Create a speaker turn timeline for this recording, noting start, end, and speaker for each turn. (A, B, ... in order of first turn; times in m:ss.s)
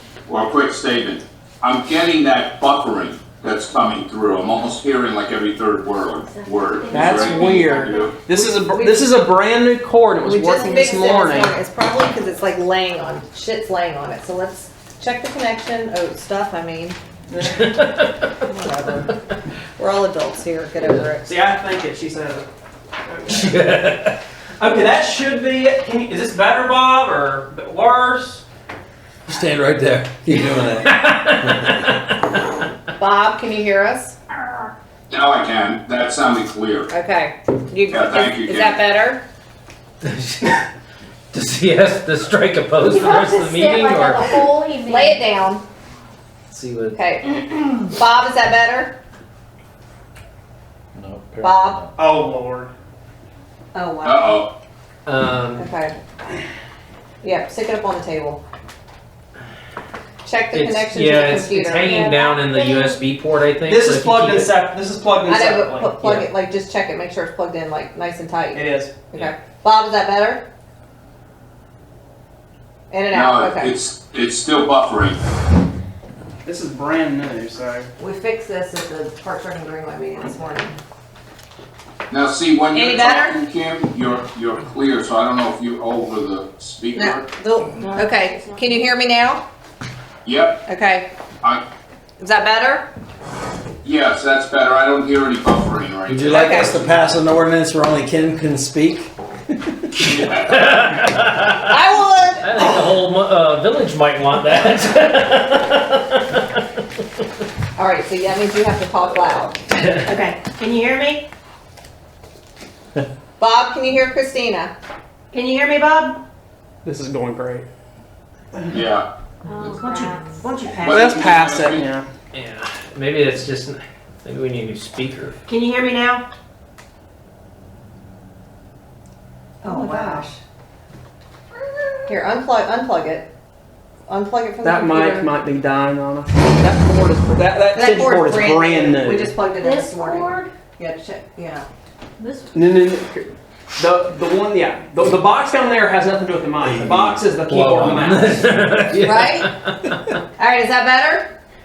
0:00.3-0:08.2 A
0:06.2-0:08.1 B
0:06.9-0:11.6 C
0:08.6-0:09.1 D
0:10.2-0:17.0 D
0:17.3-0:17.7 C
0:17.4-0:18.3 E
0:18.4-0:19.2 D
0:19.8-0:21.3 D
0:21.2-0:22.5 C
0:23.1-0:23.6 C
0:23.3-0:24.2 E
0:24.6-0:28.4 C
0:29.3-0:31.8 F
0:30.8-0:32.4 E
0:33.0-0:34.2 D
0:35.1-0:36.9 A
0:36.9-0:39.2 D
0:37.9-0:38.8 A
0:40.0-0:40.6 E
0:41.3-0:44.4 E
0:42.9-0:45.3 B
0:44.6-0:45.6 D
0:46.5-0:47.0 E
0:46.9-0:49.0 D
0:51.0-0:51.9 F
0:51.4-0:51.8 D
0:52.0-0:52.7 C
0:53.7-0:54.4 D
0:54.0-0:54.5 A
0:55.1-0:55.7 E
0:55.6-0:56.0 D
0:57.2-0:58.4 D
1:00.2-1:02.2 D
1:00.5-1:04.5 E
1:01.8-1:03.0 B
1:03.7-1:06.3 C
1:05.3-1:10.4 D
1:08.5-1:09.0 C
1:12.9-1:13.8 D
1:13.1-1:15.2 A
1:16.4-1:17.9 C
1:18.0-1:20.8 D
1:22.1-1:27.3 A
1:22.7-1:23.4 D
1:26.9-1:29.4 D
1:27.8-1:28.8 B
1:30.2-1:30.6 A
1:30.7-1:31.1 D
1:32.2-1:32.9 D
1:33.8-1:36.5 A
1:36.1-1:39.1 F
1:36.3-1:36.8 D
1:40.0-1:40.7 A
1:40.5-1:41.7 E
1:41.7-1:42.9 D
1:42.4-1:46.4 E
1:47.8-1:49.6 D
1:50.0-1:51.2 G
1:53.4-1:54.7 D
1:55.3-1:56.2 G
1:56.8-1:57.6 C
1:58.7-1:59.1 A
1:59.5-2:00.5 B
1:59.6-2:01.1 G
2:00.8-2:01.9 A
2:00.9-2:02.1 C
2:02.3-2:05.4 E
2:05.5-2:06.2 G
2:09.6-2:10.4 D
2:09.6-2:10.3 G
2:12.1-2:13.3 D
2:14.1-2:15.3 D
2:14.6-2:19.3 C
2:17.7-2:21.7 D
2:19.5-2:20.5 B
2:22.2-2:22.6 B
2:22.5-2:28.5 C
2:27.5-2:30.2 E
2:29.0-2:29.5 D
2:30.4-2:31.3 D